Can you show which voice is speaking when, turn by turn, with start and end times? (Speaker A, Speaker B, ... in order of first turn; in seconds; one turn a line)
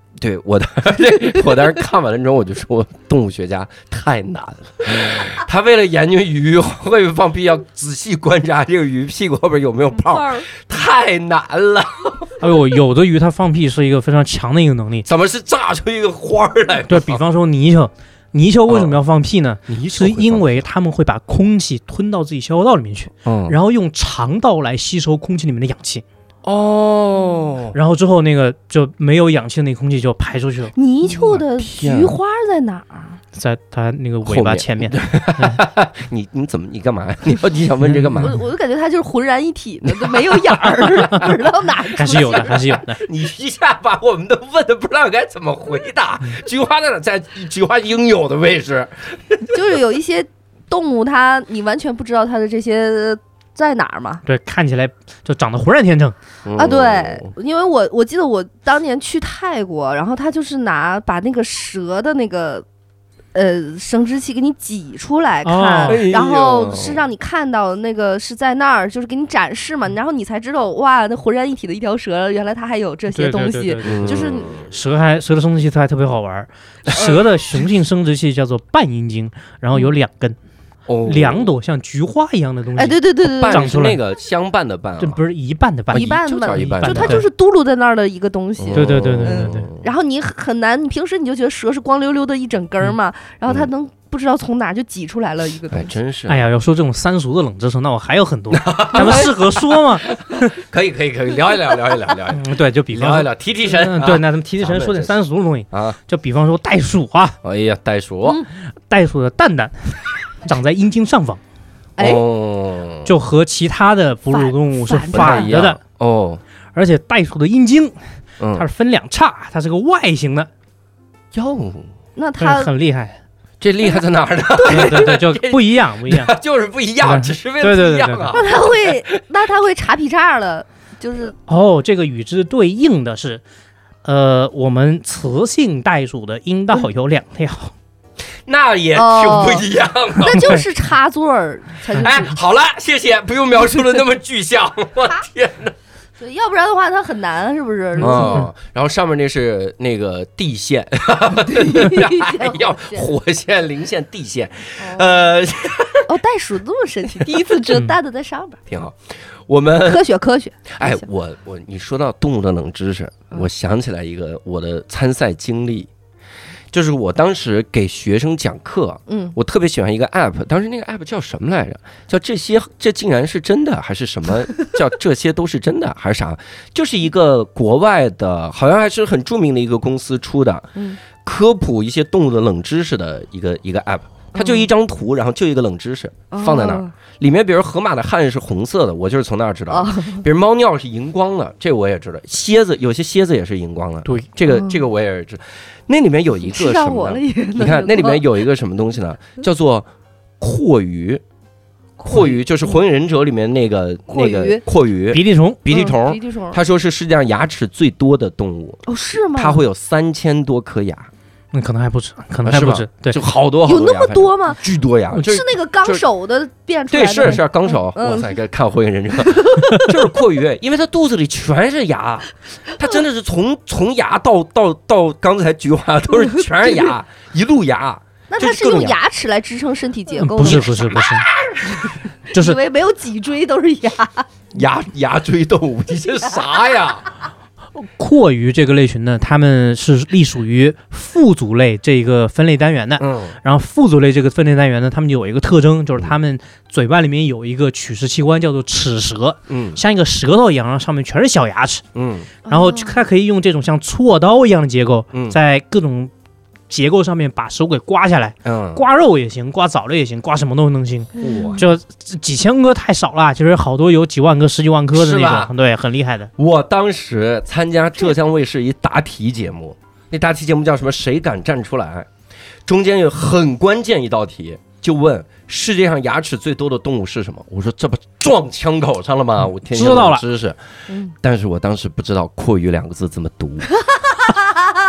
Speaker A: 0.2-12.3
Speaker B: 1.1-1.7
Speaker B: 9.9-10.5
Speaker C: 12.4-15.1
Speaker A: 15.0-17.2
Speaker C: 16.9-26.0
Speaker A: 18.7-18.9
Speaker A: 19.7-20.6
Speaker A: 23.2-23.6
Speaker A: 26.4-27.8
Speaker C: 27.7-30.7
Speaker B: 30.7-33.2
Speaker A: 31.1-32.1
Speaker C: 33.3-35.6
Speaker A: 34.2-38.3
Speaker C: 37.9-38.3
Speaker B: 38.2-42.8
Speaker A: 40.7-41.0
Speaker C: 42.0-43.0
Speaker A: 42.9-49.5
Speaker B: 49.5-54.2
Speaker C: 54.2-56.1
Speaker A: 56.4-57.3
Speaker B: 56.5-62.6
Speaker B: 63.3-74.6
Speaker C: 65.4-66.0
Speaker A: 65.9-67.0
Speaker C: 73.1-80.3
Speaker A: 73.8-74.7
Speaker B: 76.9-77.2
Speaker A: 80.9-81.5
Speaker C: 81.0-84.0
Speaker B: 82.8-83.7
Speaker A: 83.2-85.2
Speaker C: 85.0-87.2
Speaker A: 85.9-87.2
Speaker B: 85.9-95.9
Speaker A: 88.6-89.8
Speaker C: 88.7-89.6
Speaker A: 95.7-96.4
Speaker C: 96.3-100.2
Speaker A: 98.5-99.5
Speaker B: 98.9-99.3
Speaker A: 100.5-105.1
Speaker C: 102.3-107.4
Speaker A: 105.7-106.0
Speaker A: 107.4-108.4
Speaker C: 108.9-111.4
Speaker B: 112.0-112.2
Speaker A: 112.0-113.1
Speaker C: 113.0-115.8
Speaker B: 114.3-115.5
Speaker A: 115.1-116.4
Speaker C: 116.7-118.0
Speaker A: 118.4-118.7
Speaker C: 118.5-120.5
Speaker A: 121.3-121.9
Speaker B: 122.2-122.7
Speaker C: 122.4-123.2
Speaker A: 123.6-129.2
Speaker B: 124.5-125.0
Speaker C: 124.7-126.3
Speaker C: 127.0-128.3
Speaker B: 128.3-131.3
Speaker C: 131.5-133.4
Speaker C: 134.0-137.7
Speaker A: 138.5-140.5
Speaker B: 138.9-139.7
Speaker B: 140.2-142.3
Speaker C: 140.3-140.6
Speaker A: 142.0-145.7
Speaker B: 146.2-148.5
Speaker A: 148.0-156.1
Speaker C: 148.1-148.4
Speaker B: 151.4-153.1
Speaker B: 154.8-155.3
Speaker B: 156.1-158.6
Speaker A: 158.7-160.0
Speaker B: 159.8-161.0
Speaker A: 160.7-165.9
Speaker A: 166.7-199.9
Speaker B: 169.1-169.3
Speaker B: 184.3-184.7
Speaker B: 186.3-186.9
Speaker B: 189.7-190.2
Speaker B: 194.5-194.8
Speaker B: 196.4-198.2
Speaker A: 200.4-201.2
Speaker B: 202.0-202.4
Speaker A: 202.0-208.8
Speaker B: 204.1-204.6
Speaker C: 205.1-205.6
Speaker B: 205.7-206.6
Speaker B: 208.8-209.6
Speaker A: 209.3-211.1
Speaker C: 211.5-213.2
Speaker A: 212.4-216.0
Speaker B: 213.6-214.6
Speaker B: 215.2-218.3
Speaker A: 216.9-229.0
Speaker B: 219.2-219.9
Speaker B: 226.2-226.9
Speaker B: 228.3-231.1
Speaker C: 230.2-231.2
Speaker A: 230.5-231.8
Speaker B: 232.3-234.3
Speaker C: 232.3-232.6
Speaker A: 234.5-237.1
Speaker C: 237.8-251.8
Speaker A: 243.0-243.4
Speaker A: 249.5-249.8
Speaker A: 251.9-252.3
Speaker B: 252.4-253.0
Speaker C: 252.5-256.1
Speaker C: 256.7-266.3
Speaker A: 258.4-258.8
Speaker B: 261.1-261.6
Speaker A: 261.2-261.6
Speaker A: 264.9-265.5
Speaker A: 266.4-272.1
Speaker A: 272.6-283.7
Speaker C: 279.7-280.2
Speaker B: 283.9-284.7